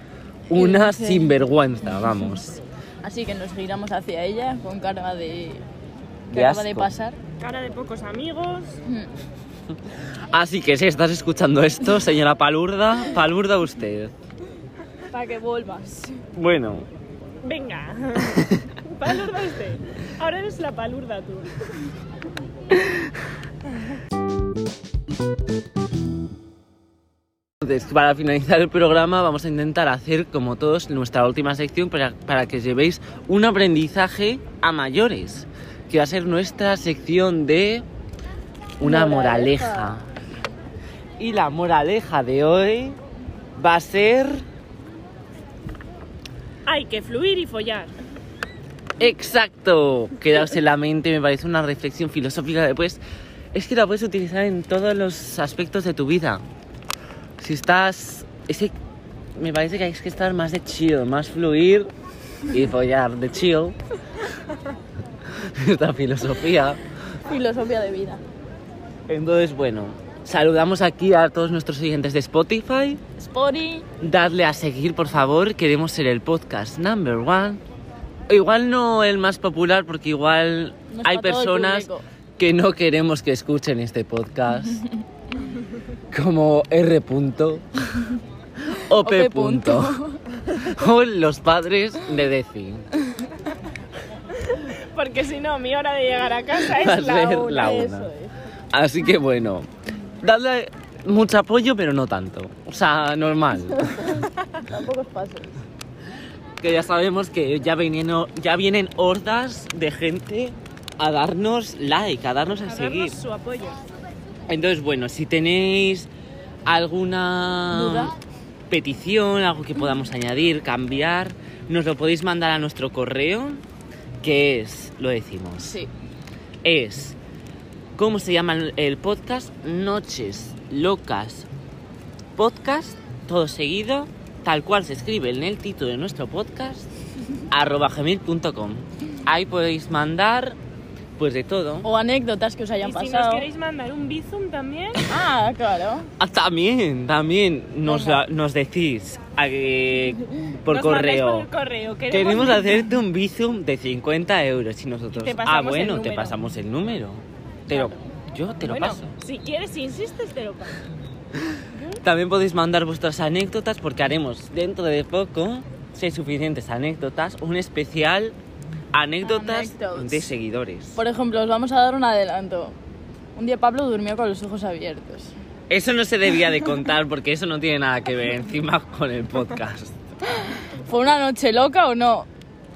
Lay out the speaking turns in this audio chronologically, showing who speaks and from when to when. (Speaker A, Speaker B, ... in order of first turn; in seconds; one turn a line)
Speaker A: 0.5-2.6
Speaker B: 0.5-1.4
Speaker B: 3.0-5.6
Speaker B: 6.3-7.2
Speaker A: 6.3-6.9
Speaker C: 7.4-8.8
Speaker A: 10.3-14.1
Speaker B: 15.1-16.2
Speaker A: 16.3-16.9
Speaker C: 17.4-21.7
Speaker A: 27.6-37.8
Speaker A: 38.8-40.0
Speaker B: 38.8-39.9
Speaker A: 41.2-43.0
Speaker A: 43.5-44.4
Speaker C: 46.6-47.9
Speaker A: 49.0-53.0
Speaker A: 53.5-56.4
Speaker A: 57.4-58.7
Speaker A: 59.4-61.9
Speaker A: 62.5-63.8
Speaker A: 65.4-66.8
Speaker B: 67.2-68.2
Speaker A: 69.1-73.0
Speaker B: 73.2-73.9
Speaker A: 74.0-77.6
Speaker A: 78.3-84.8
Speaker B: 80.9-82.0
Speaker A: 86.1-88.0
Speaker A: 88.7-90.0
Speaker B: 89.0-90.2
Speaker A: 90.5-92.8
Speaker C: 94.4-97.8
Speaker A: 96.7-98.1
Speaker B: 97.1-98.3
Speaker A: 98.7-99.7
Speaker A: 100.2-104.2
Speaker B: 103.7-105.6
Speaker A: 106.6-113.2
Speaker C: 112.7-113.8
Speaker A: 114.5-116.1
Speaker A: 116.7-118.2
Speaker B: 117.7-118.1
Speaker A: 118.7-123.6
Speaker A: 124.2-125.8
Speaker B: 125.6-125.9
Speaker A: 126.6-127.2
Speaker A: 128.0-131.5
Speaker A: 132.3-136.9
Speaker A: 137.5-140.6
Speaker A: 141.2-141.9
Speaker B: 141.8-143.5
Speaker C: 142.8-145.0
Speaker B: 145.1-146.1
Speaker A: 146.2-151.5
Speaker C: 147.8-148.2
Speaker C: 150.7-152.9
Speaker A: 152.1-159.1
Speaker C: 155.1-156.4
Speaker C: 157.7-158.1
Speaker C: 158.6-160.8
Speaker A: 162.0-168.3
Speaker A: 168.9-171.0
Speaker B: 169.2-170.3
Speaker B: 170.9-172.8
Speaker B: 173.3-175.3
Speaker A: 175.7-180.0
Speaker B: 180.4-182.3